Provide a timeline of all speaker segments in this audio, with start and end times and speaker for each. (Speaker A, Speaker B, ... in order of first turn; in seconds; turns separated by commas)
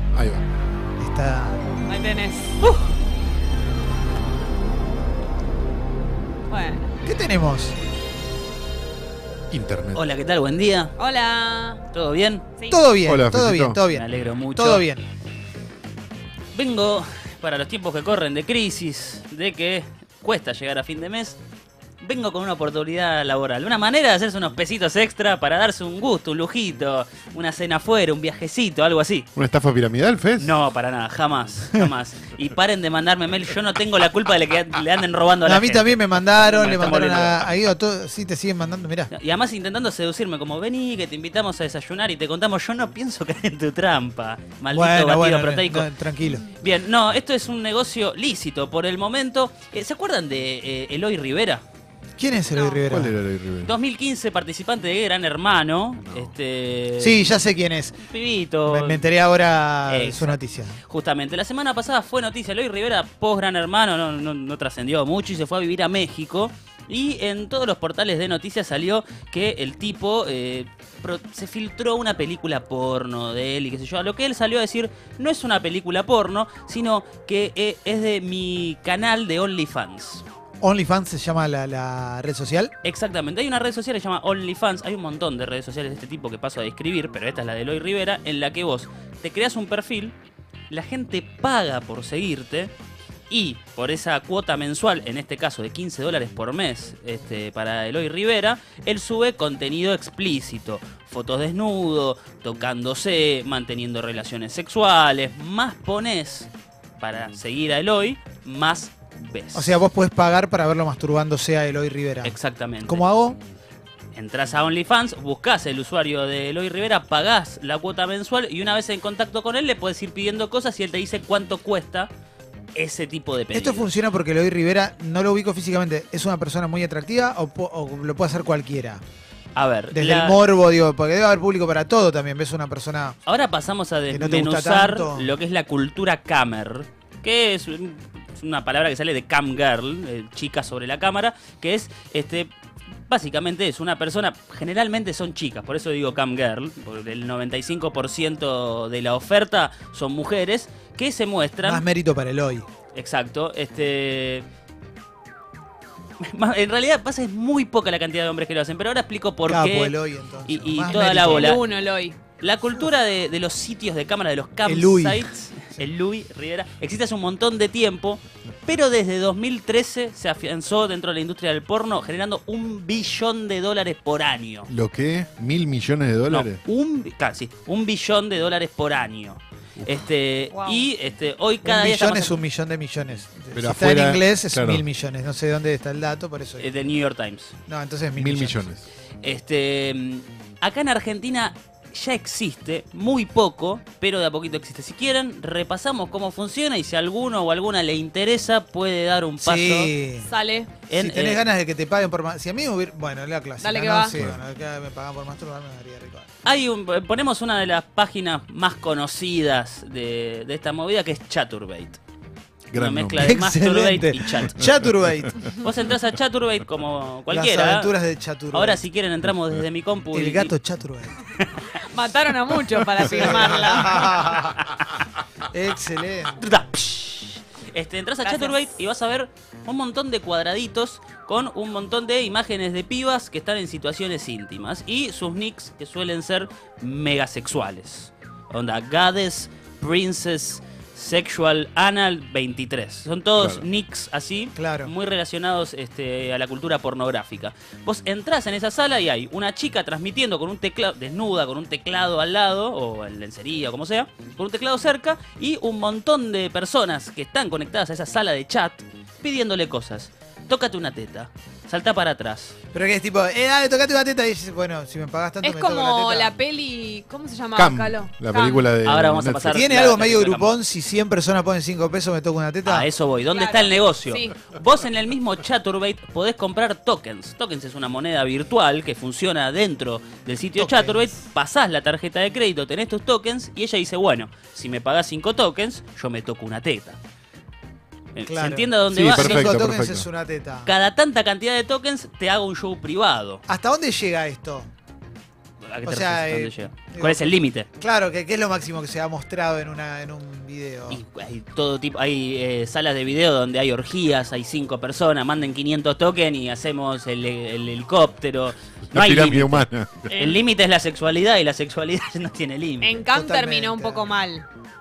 Speaker A: 0.1-0.4, Speaker B: 1.0-1.6, Speaker C: 1.9-2.8, Speaker C: 6.5-7.0, Speaker B: 7.0-7.8, Speaker A: 9.5-10.0, Speaker D: 9.9-10.9, Speaker C: 11.0-11.8, Speaker D: 11.9-12.5, Speaker B: 12.7-15.0, Speaker A: 13.1-13.8, Speaker D: 13.9-14.9, Speaker D: 16.5-21.4, Speaker D: 22.0-29.3, Speaker A: 29.4-30.6, Speaker D: 30.4-37.5, Speaker B: 35.5-39.1, Speaker D: 39.1-45.9, Speaker B: 44.7-46.5, Speaker D: 46.5-51.6, Speaker B: 52.2-53.2, Speaker A: 52.9-53.7, Speaker D: 53.6-57.3, Speaker B: 57.0-58.0, Speaker D: 58.0-59.0, Speaker B: 58.7-60.8, Speaker D: 59.9-80.2, Speaker B: 80.6-82.7, Speaker D: 82.8-90.1, Speaker D: 90.7-92.7, Speaker D: 93.3-109.8, Speaker B: 109.5-113.4, Speaker D: 112.2-113.1, Speaker D: 114.1-122.1, Speaker D: 122.8-123.9, Speaker B: 123.5-129.0, Speaker D: 129.6-130.4, Speaker B: 129.9-133.2, Speaker D: 133.3-142.5, Speaker B: 134.1-135.3, Speaker D: 143.1-151.8, Speaker B: 151.6-152.7, Speaker D: 152.9-154.4, Speaker D: 156.2-161.6, Speaker B: 159.5-161.6, Speaker C: 161.1-162.2, Speaker D: 162.4-174.7, Speaker B: 164.7-165.9, Speaker A: 174.7-176.6, Speaker D: 176.3-182.4, Speaker A: 179.8-180.1, Speaker C: 180.5-180.9, Speaker B: 181.7-186.7, Speaker A: 183.5-184.8, Speaker D: 186.6-187.6, Speaker B: 187.7-188.7, Speaker A: 188.2-188.9, Speaker D: 189.2-199.9, Speaker B: 199.4-200.3, Speaker C: 200.2-200.7, Speaker D: 200.9-201.4, Speaker B: 200.9-206.3, Speaker C: 203.6-204.2, Speaker A: 204.1-204.4, Speaker D: 206.4-212.0, Speaker A: 212.7-213.4, Speaker D: 212.7-214.7, Speaker B: 213.2-215.6, Speaker D: 215.6-217.9, Speaker B: 217.3-218.8, Speaker D: 218.5-220.5, Speaker B: 220.1-221.2, Speaker D: 221.4-221.7, Speaker C: 221.8-224.3, Speaker B: 223.2-224.6, Speaker D: 224.0-225.1, Speaker B: 225.4-226.5, Speaker D: 226.4-262.6, Speaker C: 228.2-228.5, Speaker A: 243.4-243.7, Speaker B: 244.6-244.9, Speaker B: 262.7-266.3, Speaker C: 265.4-268.7, Speaker A: 267.5-269.6, Speaker D: 268.8-270.6, Speaker B: 269.5-272.9, Speaker D: 272.6-287.0, Speaker C: 273.3-274.3, Speaker B: 280.6-281.1, Speaker D: 288.1-289.6, Speaker B: 288.2-290.7, Speaker A: 288.9-290.1, Speaker D: 290.6-293.4, Speaker B: 293.5-294.7, Speaker D: 295.7-297.7, Speaker B: 295.8-301.0, Speaker D: 300.9-313.0, Speaker A: 308.9-310.1, Speaker C: 312.8-314.5, Speaker B: 313.1-314.1